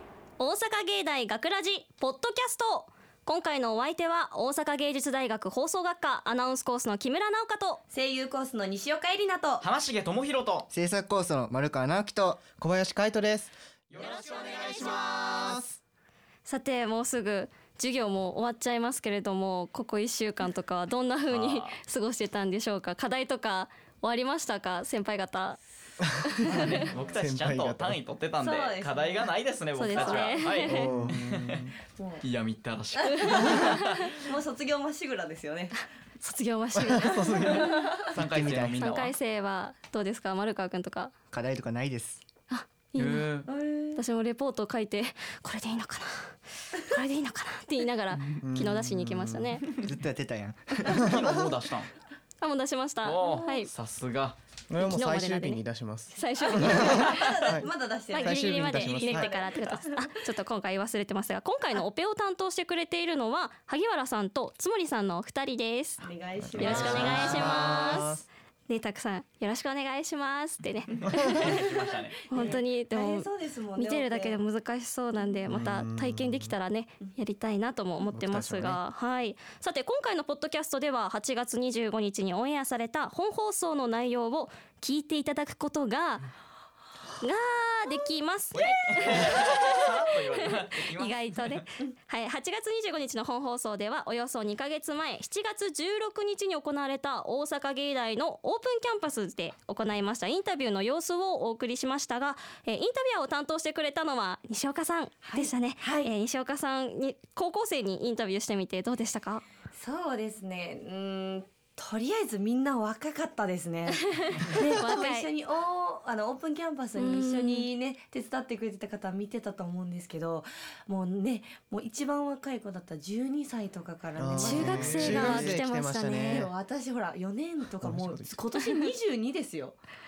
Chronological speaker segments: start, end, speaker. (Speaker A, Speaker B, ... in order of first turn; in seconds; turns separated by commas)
Speaker A: 0.4-7.8, Speaker B: 7.9-9.6, Speaker C: 9.6-10.7, Speaker D: 10.7-12.5, Speaker E: 12.6-15.8, Speaker C: 14.0-15.2, Speaker A: 16.4-25.6, Speaker C: 21.3-21.8, Speaker E: 26.3-28.0, Speaker A: 26.3-26.8, Speaker C: 26.7-31.7, Speaker B: 28.4-29.3, Speaker A: 29.7-30.9, Speaker B: 29.9-30.4, Speaker E: 30.6-31.8, Speaker B: 32.0-32.2, Speaker C: 32.2-34.1, Speaker B: 33.1-35.8, Speaker A: 33.3-33.7, Speaker A: 36.2-37.9, Speaker E: 36.7-37.9, Speaker B: 37.5-38.1, Speaker C: 38.1-39.1, Speaker D: 38.1-38.8, Speaker A: 38.8-41.1, Speaker D: 41.3-42.2, Speaker A: 42.5-43.3, Speaker C: 43.0-43.5, Speaker B: 43.5-44.0, Speaker A: 44.0-49.7, Speaker E: 48.4-49.7, Speaker D: 49.8-51.0, Speaker C: 50.9-51.9, Speaker E: 51.0-51.5, Speaker A: 52.4-53.7, Speaker C: 53.0-54.4, Speaker E: 54.7-59.3, Speaker A: 54.8-57.3, Speaker B: 56.5-60.1, Speaker A: 58.1-66.0, Speaker B: 66.0-68.0, Speaker E: 66.4-68.2, Speaker A: 66.5-68.1, Speaker A: 68.7-71.4, Speaker C: 71.2-72.3, Speaker A: 72.3-86.3, Speaker B: 72.3-74.4, Speaker E: 75.5-76.6, Speaker E: 78.1-78.8, Speaker A: 87.2-109.4, Speaker C: 88.5-91.5, Speaker B: 105.2-106.1, Speaker B: 109.8-125.4, Speaker A: 114.0-115.3, Speaker A: 117.0-117.7, Speaker E: 124.2-126.5, Speaker A: 124.3-126.5, Speaker D: 124.8-125.6, Speaker B: 126.3-129.8, Speaker E: 127.8-128.4